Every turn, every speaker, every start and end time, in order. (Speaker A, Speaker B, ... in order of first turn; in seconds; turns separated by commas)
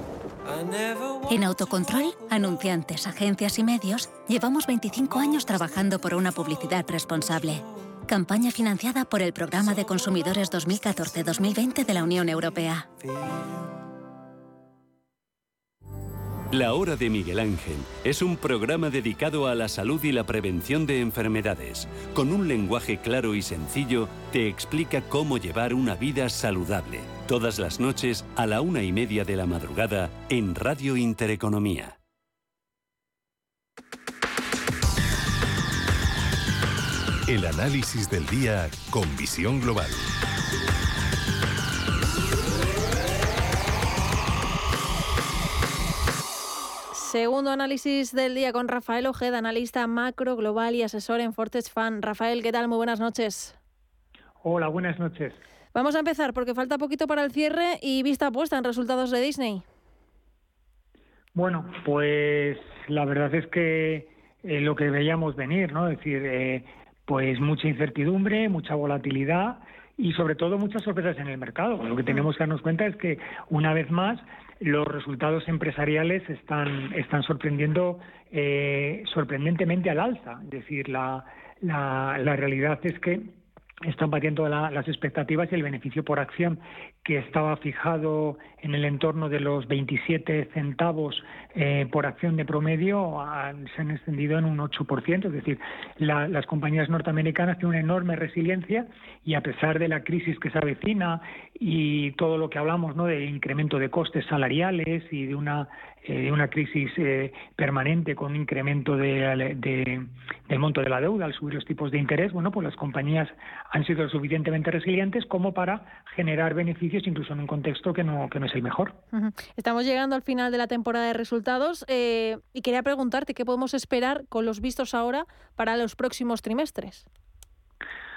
Speaker A: 1.3-12.9, Speaker B: 16.5-32.0, Speaker C: 37.3-40.1, Speaker D: 46.9-53.6, Speaker E: 54.4-55.4, Speaker D: 55.7-59.6, Speaker E: 61.3-119.0, Speaker D: 119.1-127.1